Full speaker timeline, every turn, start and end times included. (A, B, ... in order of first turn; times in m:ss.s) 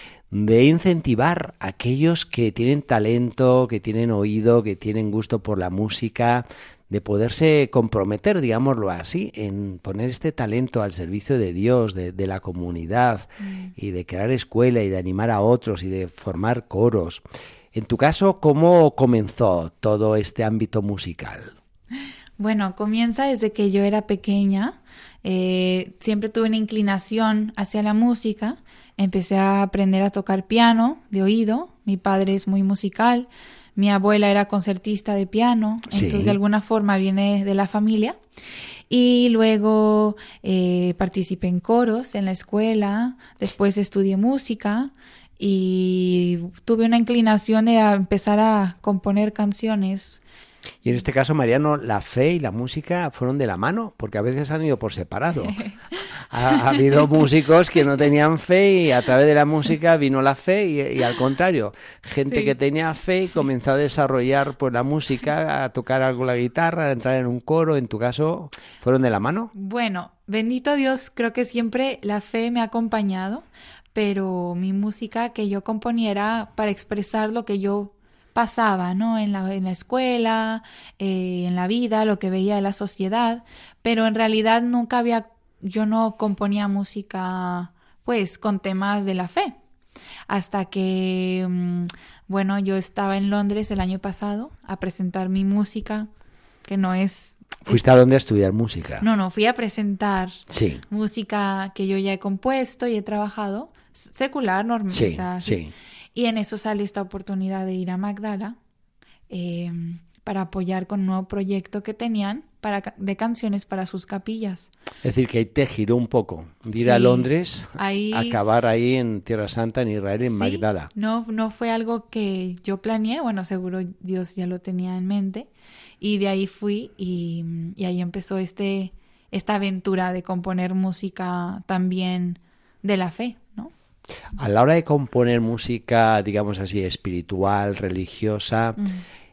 0:00.3-0:17.2 A
0:13.4-0:13.7 B
0:17.7-0:21.6 A
0:22.4-0:38.2 B
0:35.9-0:36.4 A
0:38.9-0:50.2 B
0:50.8-0:55.6 A
0:56.2-1:09.5 A
1:02.3-1:02.5 B
1:09.5-1:29.5 B
1:30.3-1:36.1 B
1:36.7-1:37.8 B
1:37.7-1:39.0 A
1:39.0-1:45.6 B
1:40.5-1:40.8 A
1:44.9-1:45.7 A
1:46.2-1:48.6 B
1:49.3-1:54.7 B
1:55.0-2:00.9 A
1:56.8-1:58.4 B
2:00.2-2:05.5 B
2:06.0-2:13.7 B
2:14.4-2:18.9 A
2:18.8-2:19.0 B